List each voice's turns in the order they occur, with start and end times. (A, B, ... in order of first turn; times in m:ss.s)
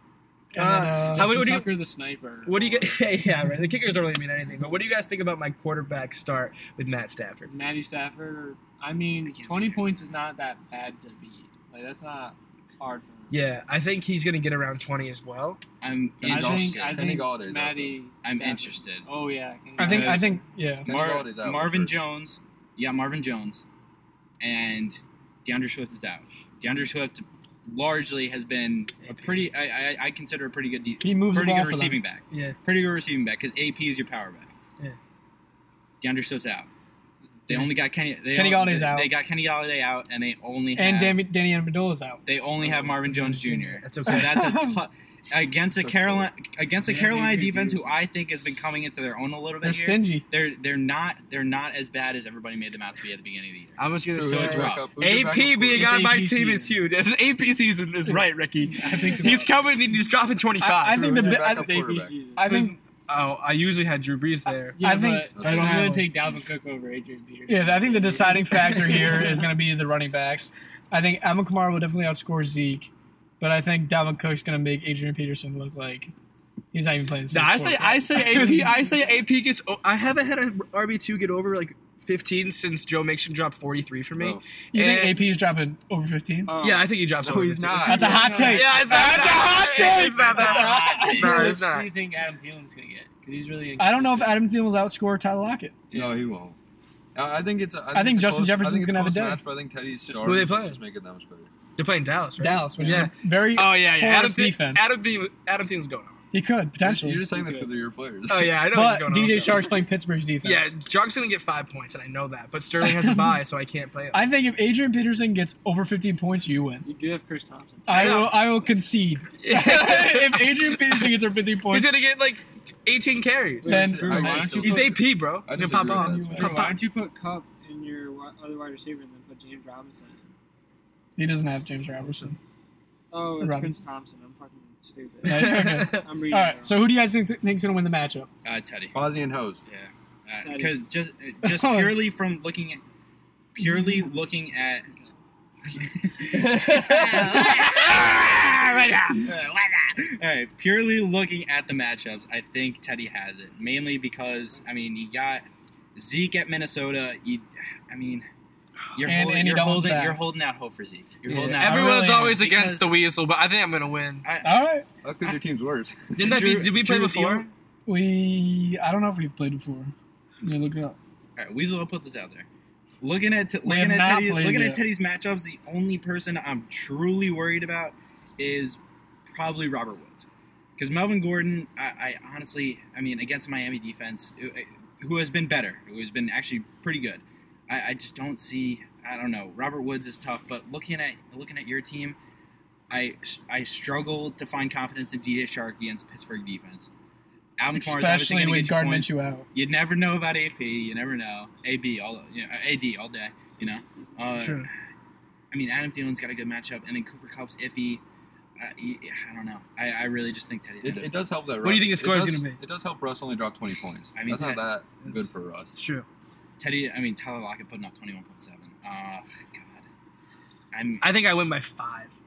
0:00.5-0:01.5 A
0:00.6-0:01.8 B
0:01.1-0:03.0 C
0:02.4-0:07.5 B
0:07.5-0:13.4 C
0:13.3-0:15.6 B
0:15.8-0:17.0 D
0:16.2-0:18.0 E
0:16.2-0:20.4 C
0:18.2-0:19.1 D
0:19.8-0:20.3 D
0:19.8-0:20.9 A
0:20.8-0:22.0 E
0:20.8-0:23.6 D
0:24.4-0:34.5 D
0:31.0-0:32.0 A
0:32.3-0:32.6 B
0:36.0-0:36.7 D
0:37.5-0:41.2 D
0:38.3-0:39.1 A
0:40.7-0:42.2 A
0:42.2-0:54.9 D
0:42.6-0:42.9 C
0:43.0-0:44.3 B
0:44.0-0:44.8 A
0:45.8-0:46.3 E
0:46.8-0:48.1 C
0:49.6-0:50.2 A
0:53.8-1:01.0 B
0:54.2-0:56.1 E
0:55.7-0:56.8 C
0:58.7-0:59.6 C
1:00.6-1:02.7 A
1:00.9-1:02.2 E
1:00.9-1:02.5 C
1:02.4-1:04.8 B
1:04.7-1:09.5 C
1:04.8-1:05.3 A
1:05.3-1:06.2 E
1:05.4-1:06.1 B
1:07.5-1:16.1 A
1:16.7-1:18.8 A
1:17.3-1:25.2 B
1:24.7-1:26.5 A
1:26.4-1:34.4 C
1:26.6-1:31.9 B
1:27.2-1:28.6 E
1:27.9-1:31.6 A
1:30.2-1:31.5 D
1:33.8-1:35.8 A
1:35.9-1:36.2 C
1:35.9-1:36.6 E
1:37.1-1:41.5 E
1:37.9-1:39.4 A
1:40.2-1:40.8 B
1:41.8-1:46.2 B
1:42.4-1:44.8 A
1:42.8-1:43.1 C
1:46.3-1:47.2 A
1:46.8-1:48.6 E
1:47.3-1:47.7 C
1:48.3-1:49.7 B
1:48.6-1:50.7 A
1:50.4-1:54.2 B
1:52.8-1:53.4 A
1:54.1-1:56.8 A
1:56.8-1:58.4 C
1:57.8-2:02.0 A
1:57.9-1:58.4 B
1:59.4-2:01.1 B
2:01.7-2:03.8 B
2:03.6-2:04.8 C
2:03.6-2:06.6 E
2:03.6-2:04.9 A
2:04.5-2:06.7 B
2:05.6-2:06.6 A
2:06.4-2:10.3 C
2:11.2-2:12.4 A
2:13.1-2:16.9 C
2:13.4-2:13.7 A
2:15.2-2:18.3 A
2:15.2-2:16.1 B
2:18.4-2:19.0 D
2:18.9-2:19.6 E
2:19.7-2:22.8 D
2:20.4-2:20.8 C
2:21.4-2:22.0 A
2:23.6-2:24.9 D
2:25.7-2:29.2 B
2:25.8-2:38.3 D
2:38.9-2:42.9 D
2:39.0-2:40.2 A
2:41.3-2:44.2 B
2:41.6-2:42.4 A
2:44.2-2:44.6 D
2:44.4-2:44.8 A
2:45.0-2:46.4 E
2:46.2-2:47.5 B
2:46.2-2:47.5 D
2:47.8-2:51.0 A
2:51.4-2:52.4 D
2:53.0-3:12.2 D
2:53.6-2:54.8 A
3:12.9-3:16.9 D
3:17.6-3:24.7 D
3:17.7-3:19.5 A
3:23.6-3:24.4 C
3:24.4-3:24.7 B
3:25.5-3:28.0 D
3:28.6-3:31.2 D
3:30.8-3:35.8 E
3:31.6-3:32.6 B
3:34.1-3:34.6 D
3:35.7-3:36.0 B
3:36.6-3:39.8 D
3:40.7-3:41.1 D
3:41.0-3:42.1 B